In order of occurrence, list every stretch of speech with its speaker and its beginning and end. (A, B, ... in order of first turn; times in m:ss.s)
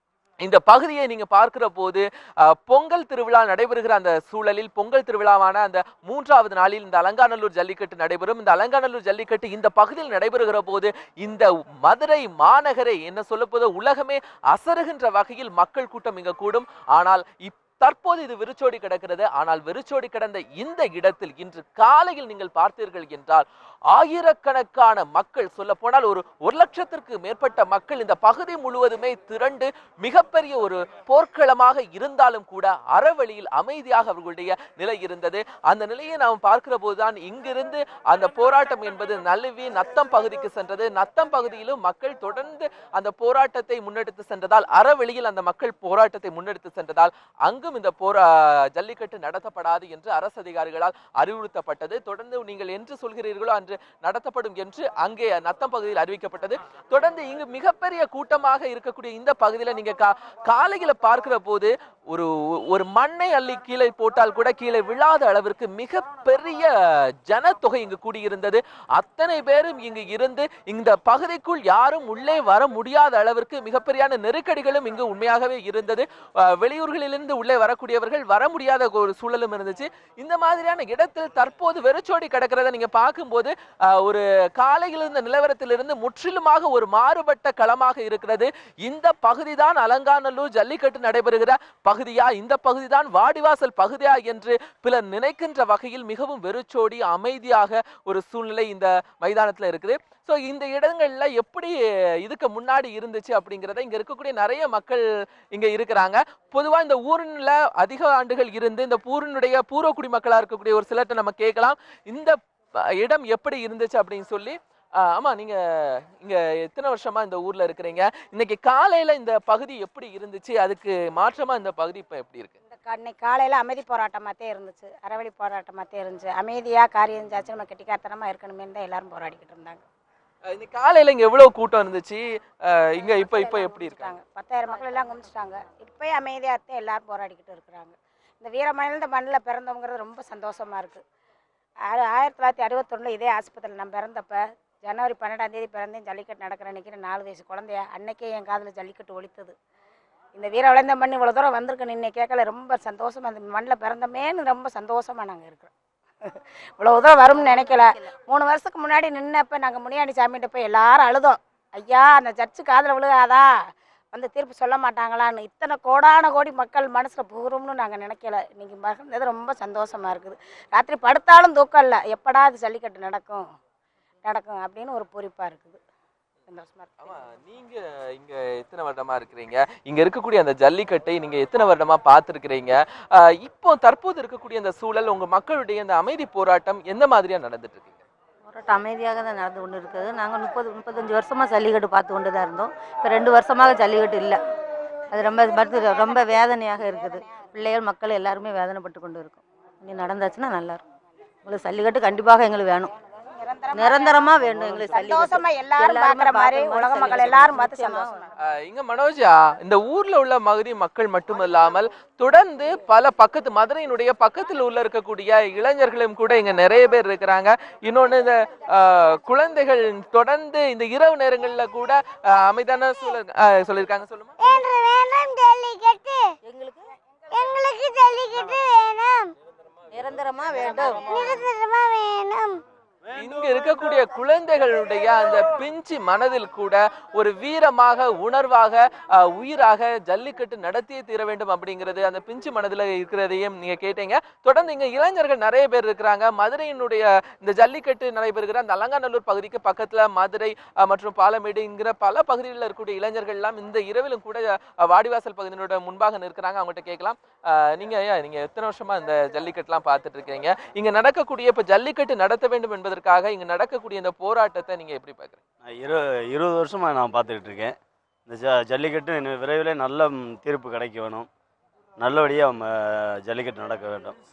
0:00.4-1:52.4 A
1:53.0-2:02.6 A
2:02.7-2:09.8 B
2:10.5-2:14.1 A
2:13.0-2:21.0 B
2:21.9-2:29.5 B
2:30.4-2:35.7 B
2:36.2-2:43.5 B
2:37.2-2:38.1 C
2:44.1-2:53.4 B
2:54.2-2:55.8 B
2:56.5-2:57.2 B
2:57.0-3:08.0 A
3:08.5-3:14.4 C
3:15.1-3:20.8 C
3:15.8-3:17.4 B
3:21.4-3:22.9 C
3:23.2-3:24.4 B
3:23.7-3:28.2 C
3:24.9-3:28.2 B
3:28.4-3:44.4 A
3:44.4-3:46.3 D
3:46.4-3:46.9 C
3:47.3-3:49.3 D
3:49.9-3:51.4 C
3:51.1-3:52.6 D
3:53.2-4:25.4 A
4:25.7-4:31.3 E
4:32.0-4:34.2 E